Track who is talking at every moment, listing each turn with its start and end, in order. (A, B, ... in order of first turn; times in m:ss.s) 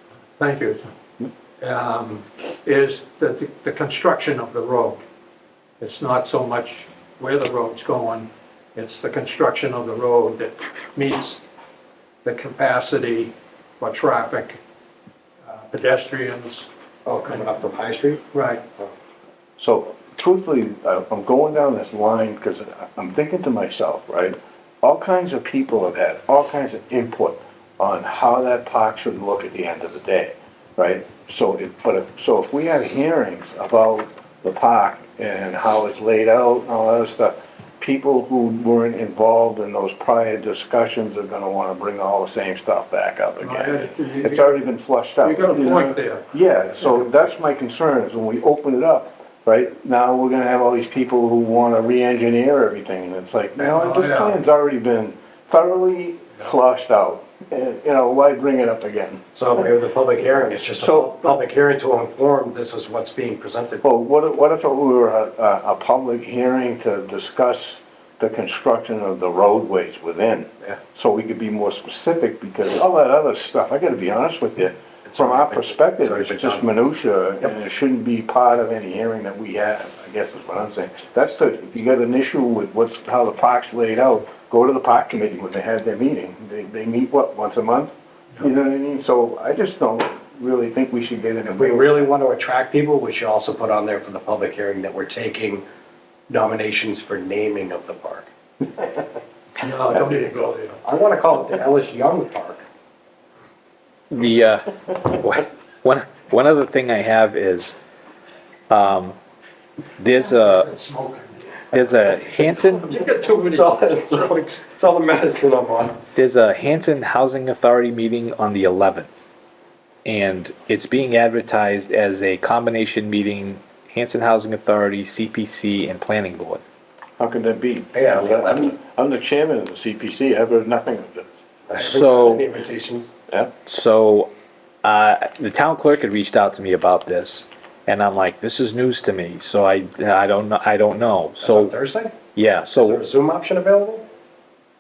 0:00.4-0:00.8 A
0:01.6-0:05.0 A
0:05.8-0:11.4 A
0:12.2-0:14.6 A
0:15.7-0:16.7 A
0:17.0-0:18.2 B
0:18.3-0:18.6 A
0:19.6-0:59.2 C
0:43.4-0:44.6 A
0:45.2-0:46.3 A
0:53.6-0:54.4 A
0:59.3-1:03.8 B
1:00.8-1:01.4 C
1:03.8-1:31.8 C
1:15.0-1:16.7 B
1:31.5-1:35.6 B
1:36.3-1:38.3 B
1:39.6-1:40.8 A
1:40.8-1:42.6 B
1:44.1-1:47.8 D
1:48.7-1:49.2 D
1:50.0-1:50.7 D
1:50.3-1:54.6 A
1:51.7-1:52.9 D
1:53.4-1:56.0 B
1:56.1-1:59.2 D
2:00.0-2:06.6 D
2:07.2-2:11.3 C
2:07.9-2:08.8 B
2:11.7-2:13.1 B
2:11.8-2:12.5 D
2:13.6-2:14.3 D
2:14.8-2:21.7 D
2:21.4-2:22.2 B
2:22.3-2:23.0 D
2:22.8-2:24.0 B